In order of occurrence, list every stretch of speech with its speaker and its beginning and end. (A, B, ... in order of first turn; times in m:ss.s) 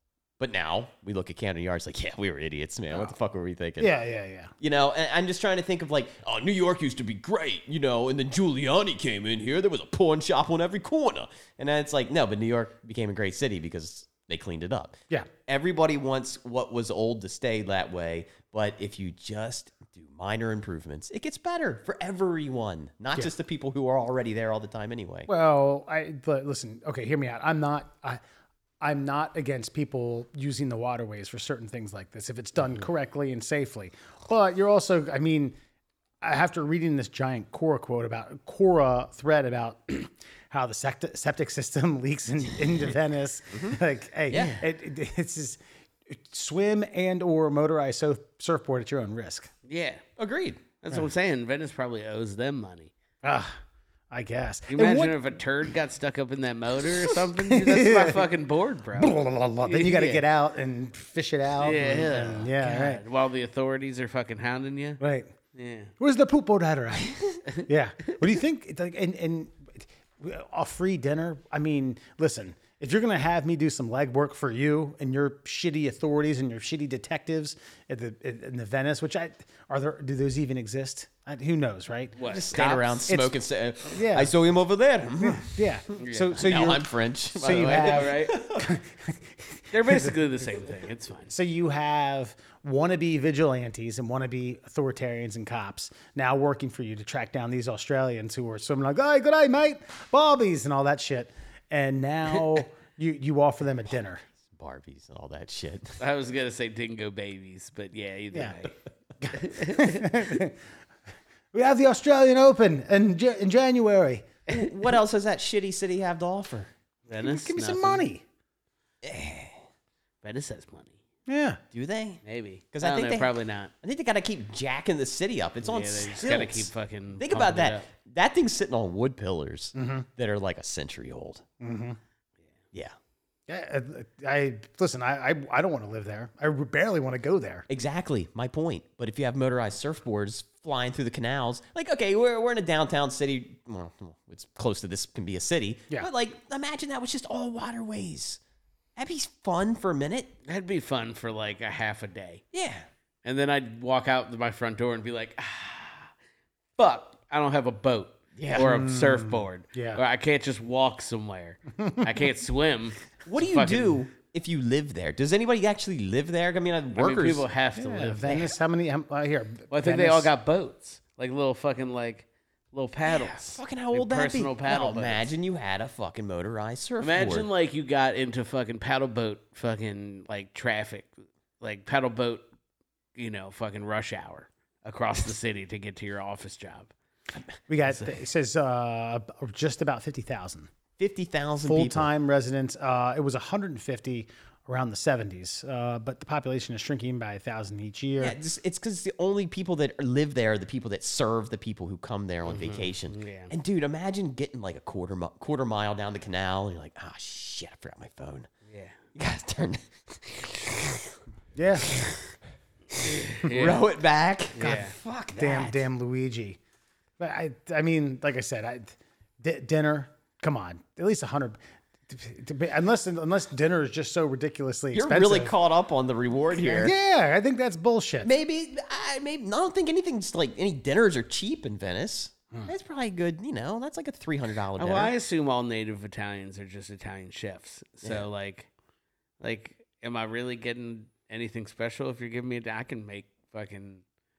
0:00.4-0:03.9 A
0:03.8-0:04.5 B
0:04.6-0:25.3 A
0:25.3-0:28.2 B
0:28.8-0:35.6 B
0:36.2-0:49.5 B
0:43.5-0:44.6 A
0:44.3-0:44.6 C
0:49.7-0:50.0 C
0:50.2-0:50.6 A
0:50.8-0:52.9 C
0:53.2-0:53.6 B
0:54.1-0:55.3 B
0:54.7-1:00.2 C
0:57.4-0:58.3 B
0:58.9-1:03.0 B
1:01.6-1:05.0 C
1:05.0-1:05.3 B
1:05.5-1:05.9 C
1:06.0-1:22.2 B
1:22.2-1:23.1 C
1:22.2-1:25.5 A
1:23.1-1:23.4 B
1:23.9-1:24.3 B
1:25.2-1:30.2 B
1:26.0-1:26.4 C
1:26.3-1:28.7 A
1:27.4-1:28.3 C
1:29.7-1:31.3 C
1:31.3-1:44.2 B
1:44.5-1:46.0 A
1:46.0-1:48.7 C
1:49.2-1:50.6 B
1:49.3-1:50.1 C
1:51.5-1:54.3 B
1:54.5-1:56.7 A
1:57.1-1:58.0 C
1:57.2-1:58.2 B
1:59.0-1:59.6 A
2:00.2-2:01.0 C
2:01.3-2:01.6 B
2:01.7-2:02.2 A
2:02.2-2:03.7 C
2:02.7-2:11.4 A
2:05.6-2:07.8 C
2:09.8-2:10.0 B
2:11.6-2:12.0 B
2:13.5-2:17.6 B
2:17.7-2:28.4 A
2:29.0-2:30.3 A
2:30.4-2:32.4 C
2:32.5-2:32.8 A
2:33.2-2:36.1 C
2:36.8-2:44.0 C
2:38.3-2:38.7 A
2:38.5-2:40.0 B
2:43.2-2:47.4 A
2:47.0-2:48.5 C
2:47.8-2:50.3 B
2:49.7-2:55.2 C
2:53.1-2:57.5 A
2:57.0-3:02.4 C
3:03.2-3:06.9 C
3:07.7-3:10.7 B
3:11.0-3:12.1 A
3:11.6-3:18.4 B
3:18.2-3:28.5 A
3:22.5-3:23.5 C
3:28.7-3:29.0 C
3:29.1-3:30.7 A
3:31.5-3:32.0 B
3:33.0-3:35.8 A
3:33.3-3:33.8 C
3:34.5-3:35.0 C
3:35.3-3:36.6 B
3:37.2-3:45.5 B
3:44.9-3:46.9 A
3:46.6-3:48.3 B
3:48.2-3:55.1 A
3:54.8-3:58.7 C
3:59.4-4:04.0 C